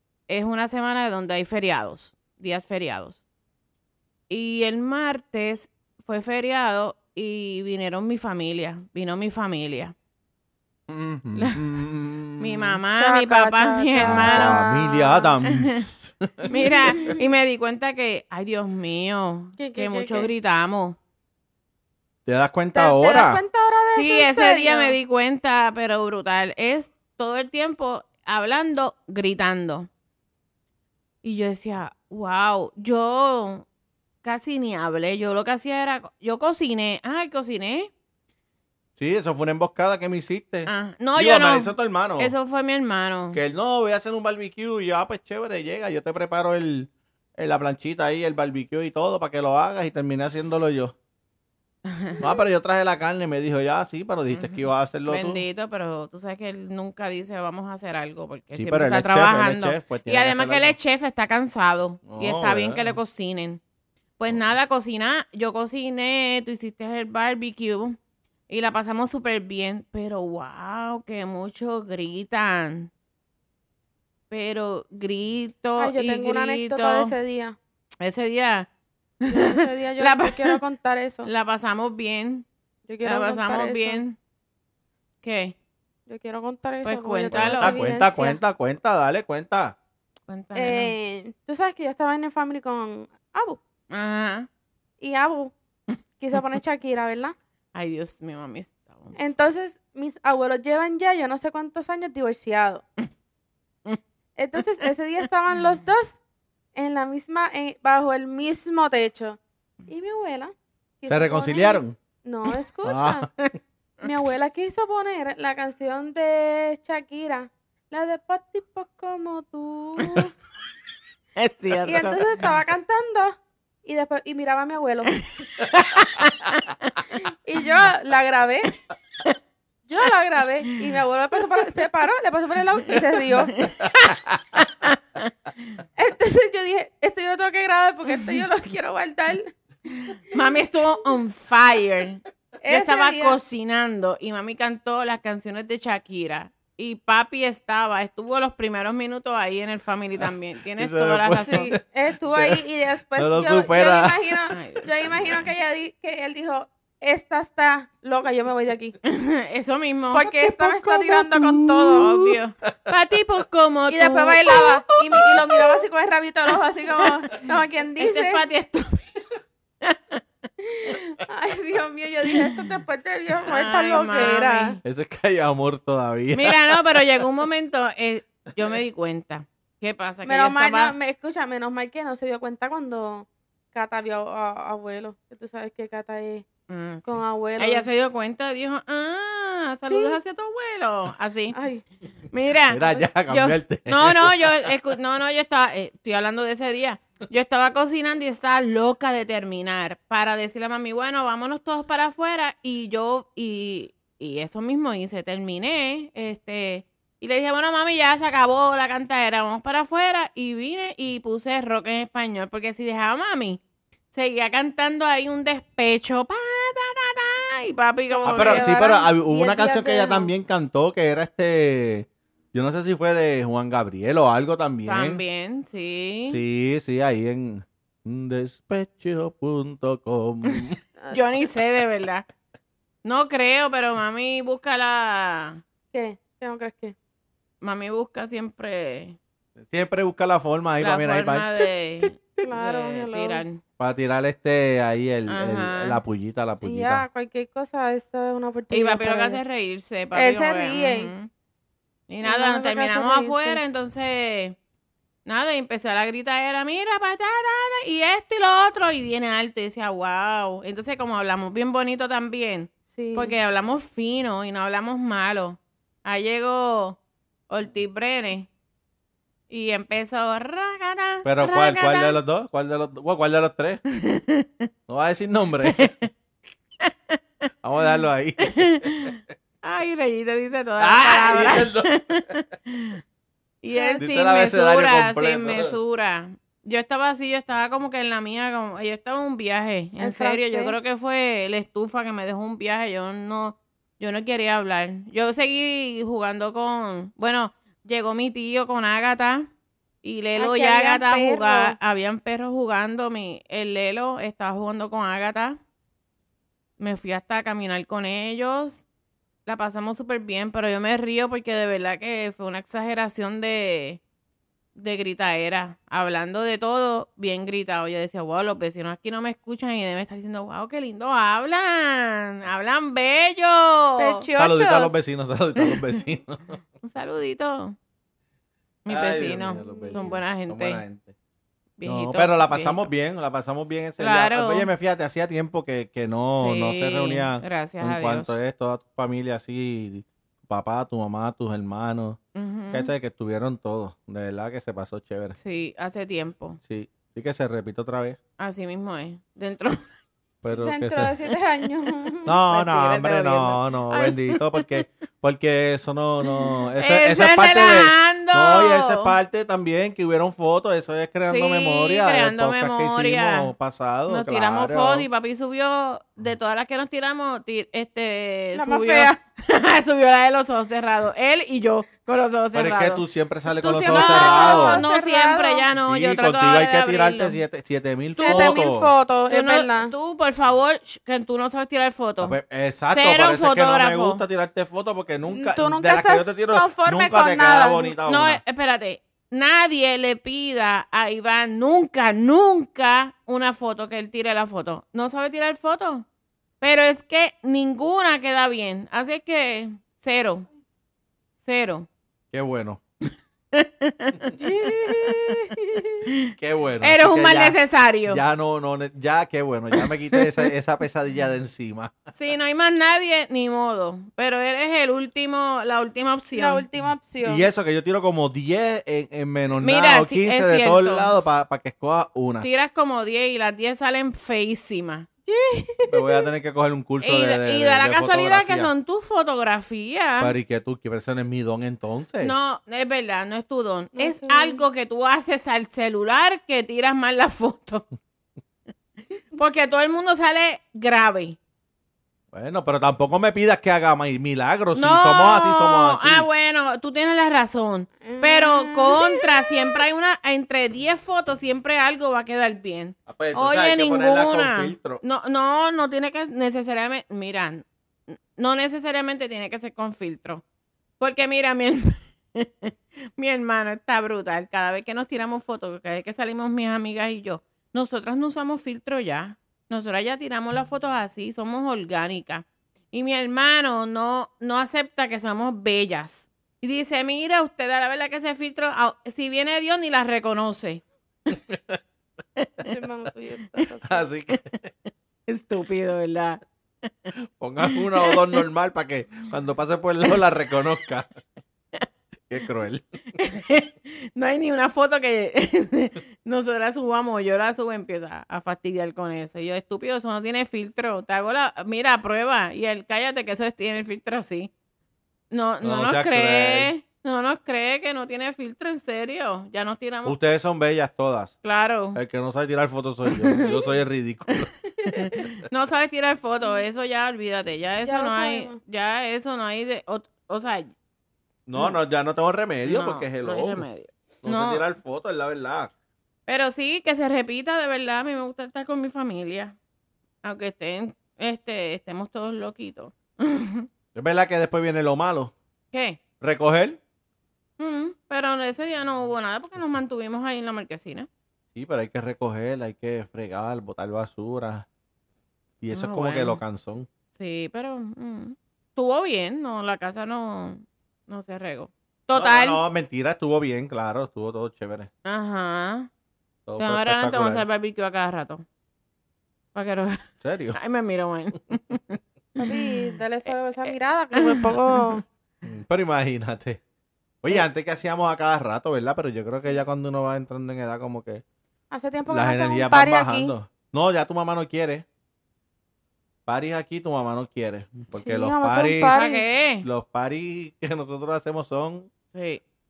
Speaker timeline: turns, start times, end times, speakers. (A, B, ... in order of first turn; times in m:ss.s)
0:00.3-0:03.2 A
0:04.3-0:09.9 A
0:10.9-0:12.8 B
0:11.3-0:11.6 A
0:12.4-0:14.7 A
0:13.0-0:15.2 C
0:14.0-0:17.1 B
0:15.4-0:15.9 A
0:16.5-0:21.0 A
0:16.5-0:17.2 C
0:19.6-0:20.3 C
0:22.2-0:23.4 B
0:22.7-0:25.0 C
0:23.9-0:29.9 A
0:31.2-0:33.6 A
0:34.2-0:37.9 A
0:39.0-0:42.3 B
0:40.7-0:43.4 A
0:43.3-0:50.9 B
0:51.9-0:52.2 A
0:52.2-0:55.4 B
0:54.3-1:03.6 A
0:58.5-1:00.7 B
1:02.0-1:03.0 B
1:04.2-1:08.0 A
1:08.5-1:12.9 A
1:14.3-1:17.1 A
1:15.8-1:17.6 C
1:18.0-1:18.7 A
1:19.2-1:20.6 A
1:19.3-1:21.3 C
1:21.2-1:22.4 A
1:22.9-1:24.0 C
1:23.0-1:24.2 A
1:25.2-1:25.6 A
1:26.1-1:28.4 C
1:26.8-1:27.8 A
1:27.3-1:29.8 B
1:30.3-1:30.9 A
1:30.5-1:33.6 C
1:33.9-1:34.5 A
1:35.0-1:35.5 C
1:36.2-1:37.3 C
1:37.7-1:39.2 A
1:39.2-1:42.8 C
1:44.4-1:46.2 C
1:44.6-1:44.8 A
1:46.7-1:53.3 C
1:51.1-1:52.0 B
1:52.8-1:53.3 B
1:54.0-2:00.3 C
2:00.0-2:00.3 A
2:01.4-2:02.3 A
2:01.8-2:05.2 C
2:05.2-2:07.1 A
2:07.2-2:08.7 C
2:09.9-2:13.6 C
2:13.5-2:15.8 A
2:14.0-2:14.4 B
2:16.0-2:19.5 C
2:18.1-2:18.4 A
2:19.9-2:31.7 A
2:22.6-2:23.4 C
2:30.2-2:31.8 B
2:31.4-2:39.0 C
2:32.3-2:32.6 B
2:33.2-2:34.5 B
2:34.5-2:34.9 A
2:39.0-2:40.3 A
2:40.1-2:42.1 C
2:40.3-2:42.7 B
2:42.0-2:45.6 A
2:43.9-2:48.4 C
2:48.0-2:49.2 A
2:49.8-2:50.2 A
2:50.7-2:54.8 C
2:53.4-2:54.8 A
2:54.8-2:57.0 B
2:56.3-3:00.9 A
3:00.2-3:06.5 C
3:06.7-3:11.6 A
3:07.0-3:07.9 C
3:09.9-3:10.2 C
3:11.5-3:11.8 C
3:12.3-3:33.6 A
3:12.7-3:14.7 B
3:34.1-3:38.7 A
3:38.1-3:40.3 C
3:38.2-3:45.2 B
3:44.8-3:46.4 A
3:46.3-3:50.8 B
3:50.5-3:52.2 A
3:51.0-3:51.4 C
3:53.0-3:55.6 A
3:55.9-3:56.9 C
3:57.6-3:59.2 A
3:59.6-4:02.1 B
4:00.8-4:03.6 A
4:02.4-4:03.4 C
4:03.8-4:07.0 B
4:05.3-4:06.0 A
4:06.6-4:09.4 C
4:08.7-4:11.3 A
4:10.1-4:11.1 C
4:12.1-4:14.6 A
4:12.2-4:13.6 C
4:15.2-4:28.5 A
4:22.9-4:23.3 C
4:29.5-4:32.2 A
4:31.2-4:33.8 B
4:33.9-4:34.7 A
4:34.9-4:35.9 B
4:35.6-4:36.1 A
4:36.8-4:37.2 A
4:37.6-4:39.1 B
4:38.5-4:43.0 A
4:40.8-4:41.9 B
4:43.6-4:59.5 A
4:43.7-4:44.0 C
4:44.0-4:45.8 B
4:50.0-4:50.8 C
5:00.0-5:05.6 A
5:00.4-5:01.8 C
5:06.8-5:08.8 A
5:09.4-5:14.0 A
5:14.7-5:24.2 A
5:24.0-5:25.0 C
5:24.4-5:26.6 B
5:26.8-5:27.8 A
5:28.8-5:30.8 A
5:28.9-5:31.1 B
5:29.6-5:30.1 C
5:31.8-5:32.9 A
5:31.8-5:42.2 B
5:34.0-5:34.7 A
5:36.3-5:38.4 A
5:42.3-5:42.9 A
5:42.7-5:45.3 B
5:45.4-5:46.6 A
5:46.6-5:48.2 B
5:48.4-5:49.8 A
5:50.4-5:51.1 B
5:50.5-5:52.4 C
5:52.2-6:05.1 B
5:52.4-5:54.8 A
5:56.3-5:59.2 A
6:01.2-6:03.5 A
6:04.1-6:13.0 A
6:08.5-6:09.2 C
6:12.5-6:14.8 B
6:13.6-6:15.6 C
6:13.6-6:17.4 A
6:15.8-6:18.9 B
6:18.2-6:18.6 A
6:18.2-6:19.9 C
6:19.3-6:22.4 A
6:22.2-6:28.4 B
6:22.9-6:24.2 A
6:25.3-6:27.9 C
6:28.0-6:36.0 A
6:36.6-6:40.5 A
6:41.4-6:41.9 A
6:42.3-6:42.8 B
6:43.5-6:45.4 A
6:44.4-6:45.9 C
6:46.0-6:48.2 A
6:46.4-6:52.0 B
6:49.8-6:50.4 A
6:52.1-6:56.6 A
6:56.4-6:57.5 C
6:57.2-7:02.5 B
6:59.6-7:01.1 A
7:02.4-7:05.1 A
7:05.3-7:06.3 C
7:05.9-7:08.7 B
7:07.0-7:10.3 A
7:10.2-7:12.3 B
7:12.2-7:17.8 A
7:14.0-7:14.6 C
7:19.3-7:21.4 A
7:22.3-7:26.3 B
7:24.7-7:37.6 A
7:28.0-7:29.8 C
7:33.1-7:35.0 B
7:38.3-7:40.4 A
7:41.0-8:00.8 A
8:01.3-8:01.8 B
8:02.4-8:02.7 A
8:02.6-8:04.1 C
8:03.8-8:04.6 B
8:05.3-8:07.1 A
8:07.4-8:11.1 B
8:07.6-8:08.4 A
8:12.3-8:12.8 B
8:13.2-8:24.5 A
8:25.3-8:30.2 A
8:25.6-8:26.7 B
8:30.0-8:31.4 B
8:31.4-8:32.0 A
8:31.9-8:34.5 B
8:33.1-8:33.6 A
8:34.8-8:40.7 A
8:37.8-8:38.6 C
8:41.5-8:43.6 B
8:42.6-8:44.6 A
8:44.2-8:45.7 B
8:46.3-8:49.6 A
8:50.2-8:53.7 A
8:53.9-8:55.3 B
8:55.7-8:56.0 A
8:56.2-8:56.8 B
8:57.6-9:01.1 A
9:01.5-9:04.6 B
9:05.6-9:06.9 B
9:05.7-9:06.4 A
9:07.2-9:12.6 A
9:12.1-9:14.9 B
9:15.0-9:15.9 A
9:16.4-9:17.4 B
9:16.6-9:18.4 A
9:19.5-9:22.7 A
9:20.2-9:20.6 B
9:22.4-9:25.0 C
9:23.3-9:25.0 A
9:25.4-9:26.6 B
9:27.2-9:31.2 B
9:31.7-9:33.3 C
9:32.1-9:34.8 B
9:36.3-9:39.1 B
9:37.9-9:39.2 C
9:38.9-9:39.6 A
9:39.6-9:41.9 B
9:42.1-9:42.4 A